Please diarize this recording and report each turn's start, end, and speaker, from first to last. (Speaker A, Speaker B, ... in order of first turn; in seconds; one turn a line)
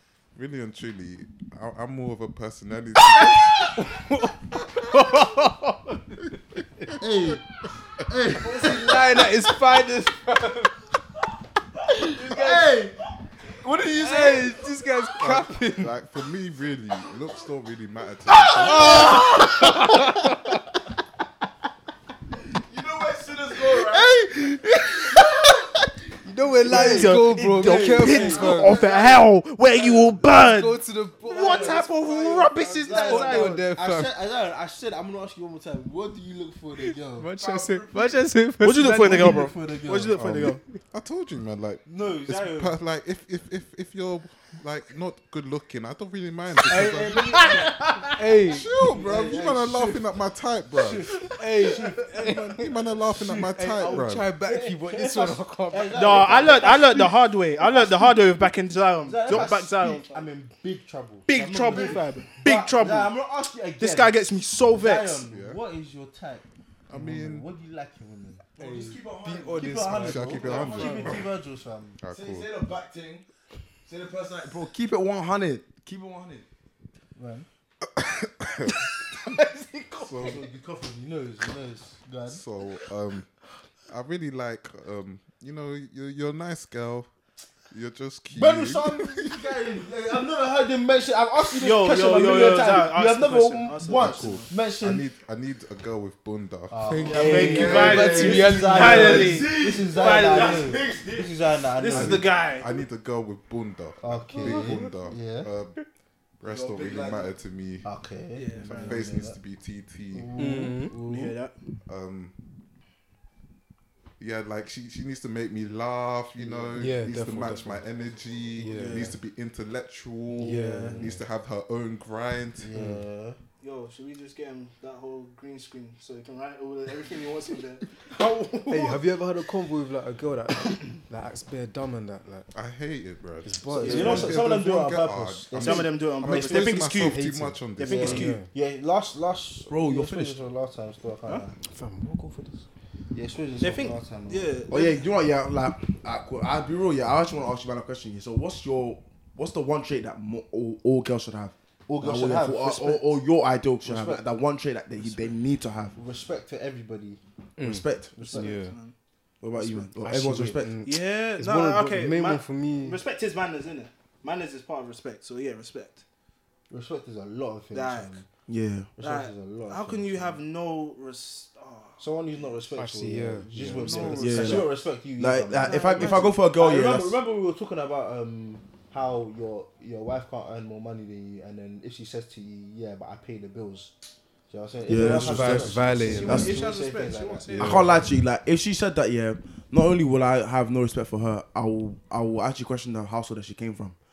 Speaker A: 0.4-3.9
Speaker B: 3.1-6.2
Speaker A: 4.6-5.2
Speaker C: 7.0-9.4
Speaker B: 8.4-10.9
Speaker C: 11.9-13.0
Speaker B: 12.0-12.7
Speaker B: 13.6-15.9
Speaker C: 13.8-15.1
Speaker A: 15.2-19.3
Speaker C: 18.5-20.6
Speaker B: 18.5-20.6
Speaker D: 22.6-24.1
Speaker C: 23.6-29.2
Speaker B: 26.2-28.8
Speaker E: 26.6-33.7
Speaker B: 30.0-34.1
Speaker C: 31.3-40.2
Speaker B: 37.2-39.5
Speaker E: 38.6-40.6
Speaker A: 40.1-47.4
Speaker C: 41.9-42.8
Speaker C: 46.6-48.2
Speaker E: 47.1-48.2
Speaker B: 48.1-49.9
Speaker A: 48.4-51.2
Speaker C: 48.8-50.0
Speaker C: 50.7-52.4
Speaker B: 51.2-56.7
Speaker A: 52.1-54.3
Speaker C: 53.9-58.2
Speaker E: 55.9-60.2
Speaker C: 59.0-64.2
Speaker E: 61.3-63.1
Speaker E: 63.8-65.2
Speaker C: 64.7-68.5
Speaker A: 65.2-65.6
Speaker A: 66.9-67.5
Speaker D: 68.6-71.3
Speaker B: 68.6-71.0
Speaker C: 69.6-72.0
Speaker A: 70.0-71.3
Speaker A: 72.0-72.5
Speaker D: 72.1-73.3
Speaker D: 73.9-76.5
Speaker C: 77.2-77.5
Speaker A: 78.0-78.8
Speaker E: 79.2-80.4
Speaker A: 80.0-80.4
Speaker C: 80.2-82.4
Speaker A: 82.3-87.1
Speaker A: 87.7-89.3
Speaker C: 88.3-95.1
Speaker E: 91.5-94.5
Speaker A: 93.9-97.5
Speaker C: 96.7-102.3
Speaker B: 96.8-99.5
Speaker E: 97.1-101.0
Speaker D: 97.1-98.3
Speaker D: 99.2-101.3
Speaker E: 101.7-102.7
Speaker A: 101.9-105.9
Speaker C: 104.0-105.5
Speaker B: 104.3-104.9
Speaker A: 106.4-107.9
Speaker D: 106.4-107.3
Speaker C: 107.8-109.4
Speaker E: 108.3-109.0
Speaker A: 108.6-110.3
Speaker C: 110.1-111.3
Speaker B: 110.4-111.0
Speaker E: 111.0-111.5
Speaker A: 111.8-112.4
Speaker A: 114.2-122.7
Speaker C: 116.4-116.7
Speaker B: 116.8-117.8
Speaker B: 118.6-119.1
Speaker E: 118.6-119.2
Speaker B: 120.4-121.2
Speaker C: 120.5-121.1
Speaker C: 122.6-123.4
Speaker B: 122.7-123.0
Speaker E: 123.6-129.1
Speaker B: 128.7-132.5
Speaker A: 132.5-138.3
Speaker B: 133.4-134.2
Speaker E: 133.7-134.4
Speaker C: 133.8-136.4
Speaker E: 135.6-137.2
Speaker B: 136.3-138.5
Speaker E: 137.8-138.4
Speaker C: 137.9-141.6
Speaker D: 139.7-140.4
Speaker B: 141.6-142.6
Speaker C: 143.1-144.6
Speaker E: 143.6-145.0
Speaker D: 144.7-156.0
Speaker C: 151.9-153.2
Speaker C: 153.8-154.2
Speaker C: 155.9-157.2
Speaker B: 157.6-158.8
Speaker D: 157.6-158.2
Speaker C: 158.2-158.6
Speaker E: 158.2-158.9
Speaker D: 159.4-160.8
Speaker C: 159.6-159.9
Speaker B: 160.0-163.0
Speaker E: 160.8-166.0
Speaker C: 166.7-168.3
Speaker E: 167.7-168.2
Speaker D: 168.5-168.9
Speaker C: 169.0-170.4
Speaker E: 169.0-172.5
Speaker C: 172.0-183.9
Speaker B: 172.8-174.6
Speaker E: 173.6-174.7
Speaker D: 174.2-177.2
Speaker E: 175.6-176.9
Speaker C: 184.5-188.0
Speaker D: 184.9-186.6
Speaker B: 184.9-186.5
Speaker E: 185.1-188.0
Speaker D: 187.6-194.0